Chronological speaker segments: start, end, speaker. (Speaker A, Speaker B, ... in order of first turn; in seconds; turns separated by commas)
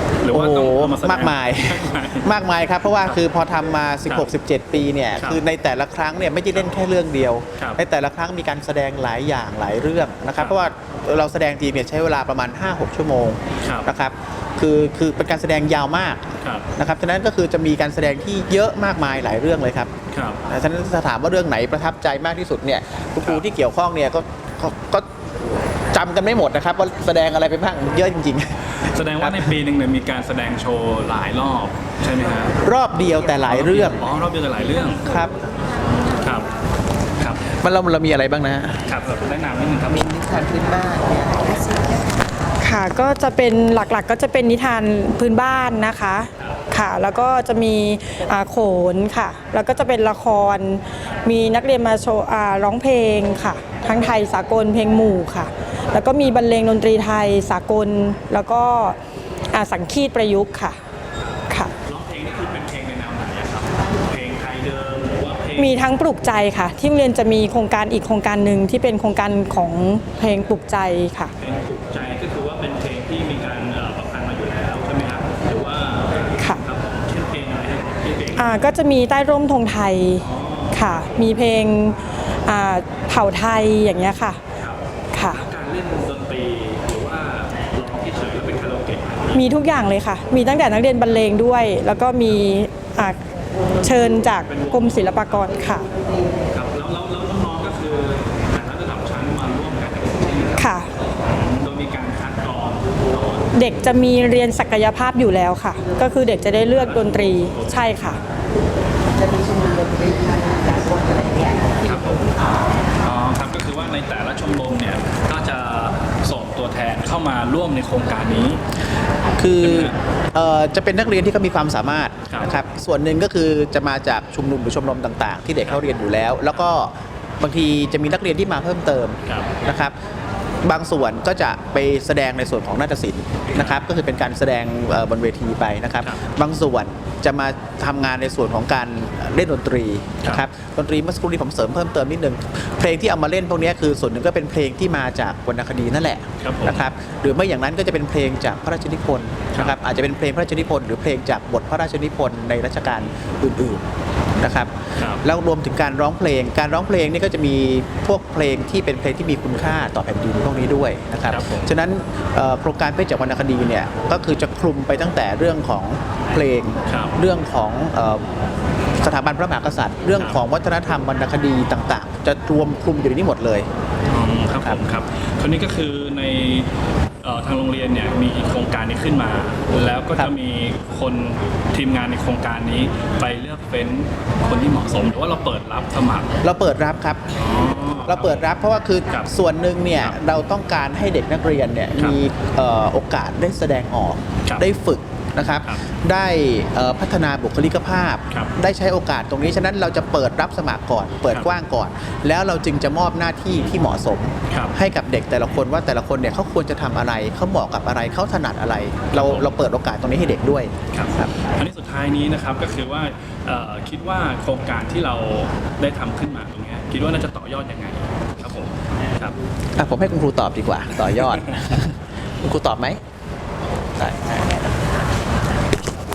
Speaker A: 0.2-2.3, Speaker B: 0.3-19.9, Speaker A: 2.9-3.2, Speaker A: 5.2-5.4, Speaker A: 13.6-13.9, Speaker A: 16.4-16.7, Speaker A: 20.1-20.4, Speaker B: 20.5-25.1, Speaker B: 25.9-29.6, Speaker A: 28.8-32.6, Speaker B: 32.6-34.0, Speaker A: 33.4-35.0, Speaker B: 35.0-35.3, Speaker A: 36.2-36.5, Speaker B: 37.5-38.8, Speaker A: 38.9-40.1, Speaker C: 39.9-41.9, Speaker D: 42.6-59.0, Speaker D: 59.5-60.8, Speaker A: 61.2-65.8, Speaker D: 65.6-71.3, Speaker A: 71.4-78.6, Speaker D: 78.3-84.4, Speaker A: 80.2-81.2, Speaker A: 84.5-89.5, Speaker D: 85.1-85.4, Speaker D: 89.3-93.2, Speaker D: 93.8-95.9, Speaker A: 94.4-95.5, Speaker A: 96.5-100.7, Speaker D: 100.6-100.9, Speaker A: 101.2-103.5, Speaker D: 103.5-108.2, Speaker A: 106.7-108.3, Speaker C: 109.5-111.5, Speaker A: 111.8-112.2, Speaker A: 113.0-118.6, Speaker B: 119.4-129.9, Speaker A: 119.6-119.9, Speaker A: 122.3-122.6, Speaker A: 129.2-129.5, Speaker B: 130.6-153.8, Speaker A: 133.5-133.8, Speaker A: 146.4-146.9, Speaker B: 154.4-168.3, Speaker A: 155.0-155.2, Speaker A: 161.3-161.7, Speaker A: 166.9-167.2, Speaker B: 169.0-173.7, Speaker A: 174.1-176.7, Speaker A: 177.2-186.3, Speaker B: 186.4-187.2, Speaker A: 187.3-188.5, Speaker B: 188.0-211.3, Speaker A: 209.1-209.5, Speaker A: 210.9-219.4, Speaker B: 219.8-223.0, Speaker B: 223.9-224.6